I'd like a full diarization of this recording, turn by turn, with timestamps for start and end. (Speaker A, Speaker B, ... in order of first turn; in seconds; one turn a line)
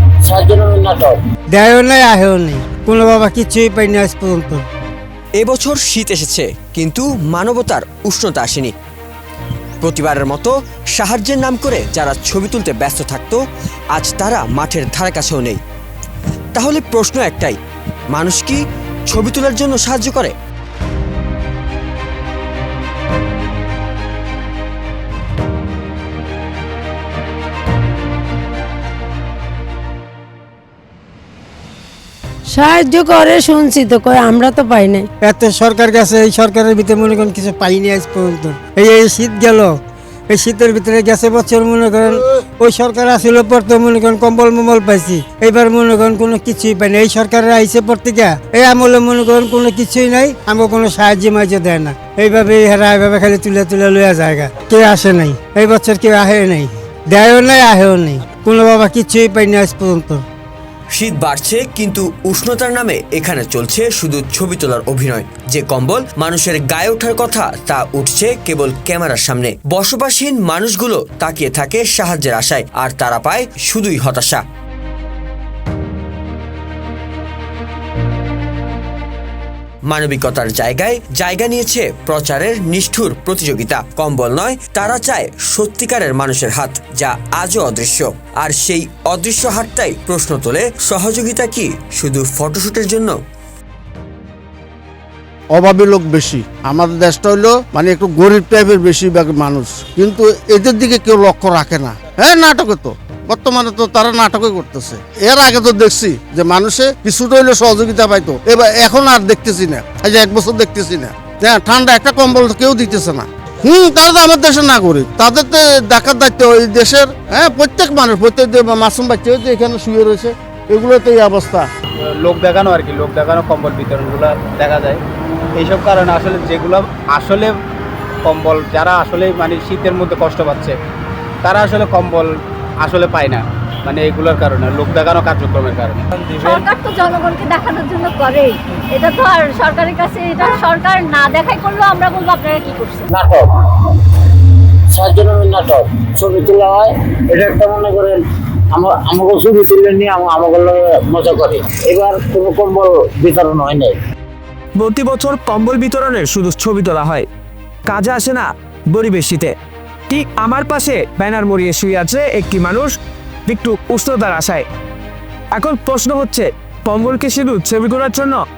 Speaker A: 0.2-1.2
Speaker B: 1.5-4.7
Speaker C: 5.4-8.7
Speaker C: 9.8-13.4
Speaker C: 13.9-15.6
Speaker C: 16.5-17.6
Speaker C: 18.1-18.6
Speaker C: 19.1-20.3
Speaker D: 32.5-35.1
Speaker B: 35.2-39.8
Speaker B: 40.3-60.2
Speaker C: 60.9-74.4
Speaker C: 79.9-93.2
Speaker E: 95.5-121.7
Speaker F: 122.2-125.0
Speaker F: 125.6-127.5
Speaker F: 128.2-130.8
Speaker F: 131.4-132.3
Speaker F: 132.8-136.7
Speaker G: 136.4-143.1
Speaker A: 143.1-144.1
Speaker A: 144.9-148.2
Speaker A: 148.7-153.9
Speaker H: 154.8-157.3
Speaker H: 157.9-159.5
Speaker H: 160.1-162.9
Speaker H: 163.5-164.7
Speaker H: 165.5-168.4